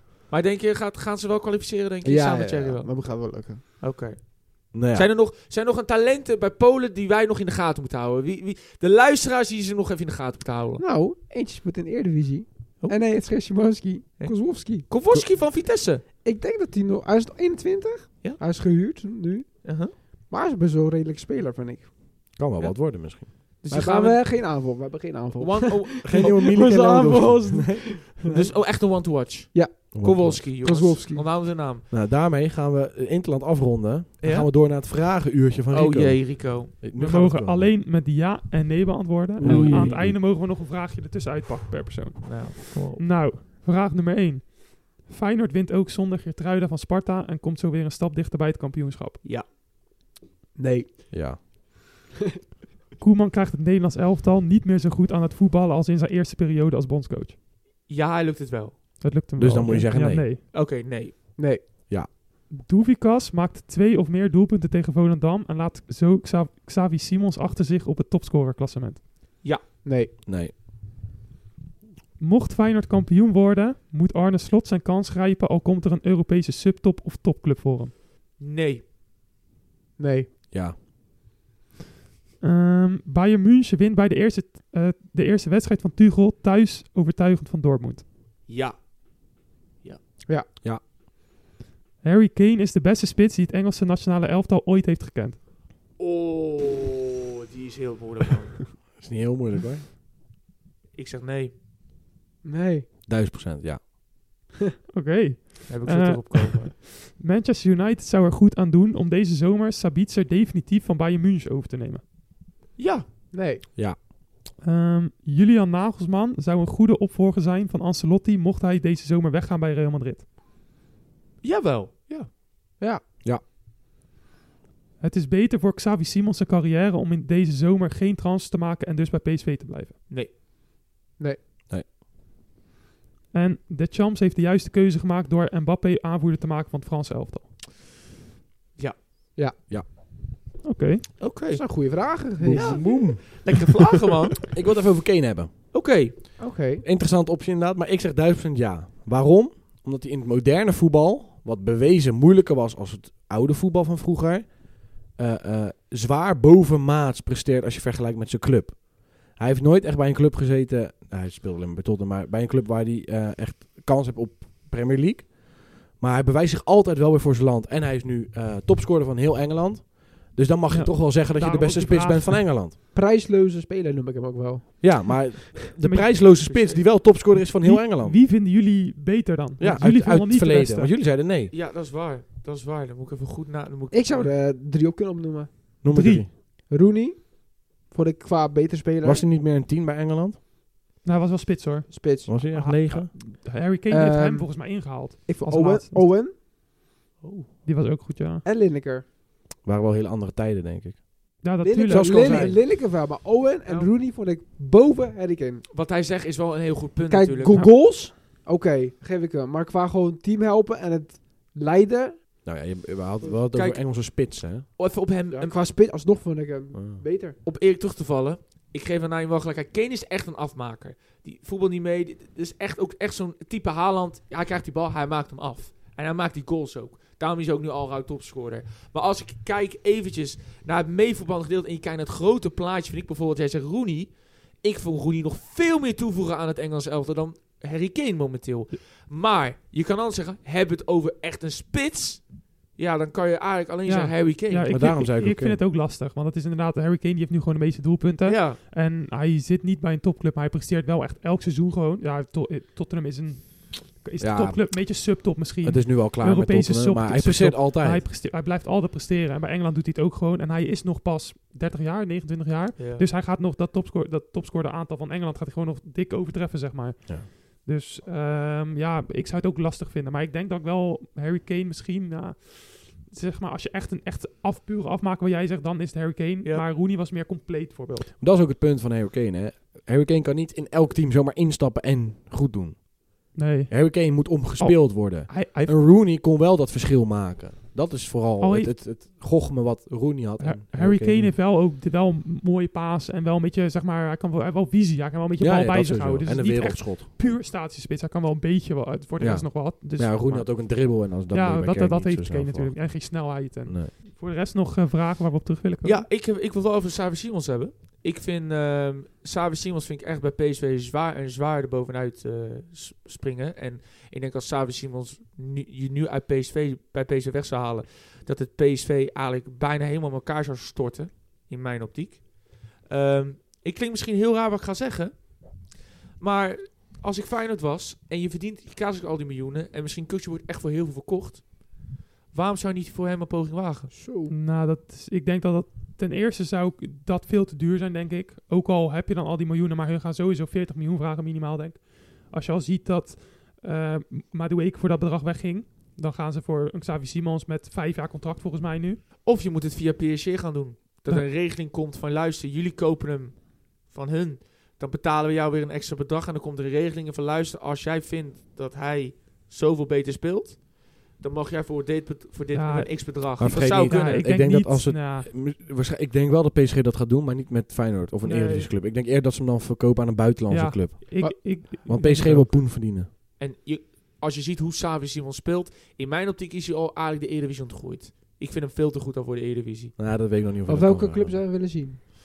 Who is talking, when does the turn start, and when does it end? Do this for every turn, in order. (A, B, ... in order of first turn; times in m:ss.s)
0:00.3-0:10.8 A
0:02.0-0:03.6 B
0:04.7-0:05.1 C
0:10.8-0:14.9 B
0:12.8-0:13.1 A
0:14.2-0:16.0 A
0:16.0-0:21.9 B
0:19.6-0:19.9 A
0:22.3-0:23.3 C
0:22.6-0:24.3 A
0:23.7-0:28.8 B
0:25.4-0:26.6 A
0:26.0-0:28.0 C
0:28.2-0:31.8 A
0:29.5-0:29.9 B
0:29.9-0:30.4 C
0:30.4-0:31.2 B
0:31.9-0:37.7 C
0:34.2-0:34.5 A
0:35.7-0:36.7 A
0:36.9-0:49.2 D
0:39.4-0:40.2 C
0:39.4-0:40.0 A
0:42.2-0:43.2 A
0:50.5-0:51.5 B
0:51.1-0:51.4 C
0:53.0-0:57.4 D
0:57.9-0:58.8 A
0:59.0-1:00.4 D
0:59.4-1:00.2 C
1:00.5-1:01.1 A
1:01.4-1:01.6 B
1:02.5-1:09.1 D
1:09.8-1:10.1 B
1:10.2-1:10.5 C
1:12.2-1:17.9 D
1:18.4-1:18.8 A
1:20.0-1:20.3 B
1:20.5-1:20.8 C
1:22.4-1:28.0 D
1:28.5-1:30.0 A
1:32.0-1:35.4 D
1:36.0-1:38.7 A
1:39.0-1:39.8 C
1:40.9-1:41.5 A
1:42.4-1:42.9 B
1:43.0-1:43.9 C
1:44.9-1:52.0 D
1:45.7-1:46.7 A
1:52.8-1:53.1 A
1:53.3-1:53.6 B
1:54.6-2:00.2 D
2:01.4-2:02.3 A
2:05.0-2:10.0 D
2:13.3-2:17.5 D
2:20.6-2:21.1 D
2:21.2-2:24.4 A
2:21.5-2:23.1 B
2:22.4-2:23.2 C
2:24.5-2:26.2 C
2:25.7-2:26.1 A
2:26.4-2:26.8 B
2:26.8-2:52.8 C
2:50.7-2:52.5 D
2:52.9-2:55.4 B
2:54.8-2:58.2 C
2:55.8-2:56.2 D
2:56.4-2:56.8 A
2:57.1-3:00.9 D
2:59.6-3:01.5 C
3:01.5-3:04.3 A
3:03.9-3:05.8 B
3:05.8-3:06.3 C
3:05.9-3:06.3 D
3:06.3-3:09.2 B
3:09.0-3:10.4 C
3:11.0-3:16.1 D
3:11.9-3:12.3 B
3:12.2-3:13.1 C
3:13.9-3:16.3 B
3:17.2-3:17.5 A
3:17.6-3:18.4 D
3:18.4-3:19.0 B
3:19.6-3:22.6 C
3:21.4-3:22.6 D
3:21.6-3:25.6 B
3:25.7-3:27.6 A
3:27.1-3:32.3 B
3:27.5-3:27.8 D
3:32.4-3:34.7 C
3:33.5-3:35.6 A
3:35.3-3:37.4 B
3:36.7-3:37.0 C
3:37.4-4:04.9 A
4:03.8-4:38.1 D
4:04.7-4:05.6 C
4:08.2-4:08.6 A
4:14.2-4:18.0 C
4:22.8-4:23.0 A
4:38.2-4:51.3 C
4:43.3-4:45.8 D
4:48.4-4:48.8 D
4:50.4-5:06.1 D
4:55.4-4:57.1 C
4:59.2-5:03.9 C
5:05.8-5:33.9 A
5:33.9-5:34.3 B
5:34.3-5:49.0 D
5:49.2-6:04.3 A
6:02.5-6:05.3 D
6:03.4-6:13.1 C
6:08.2-6:08.7 D
6:10.5-6:12.6 D
6:13.4-6:20.0 A
6:20.0-6:21.4 C
6:20.6-6:22.0 B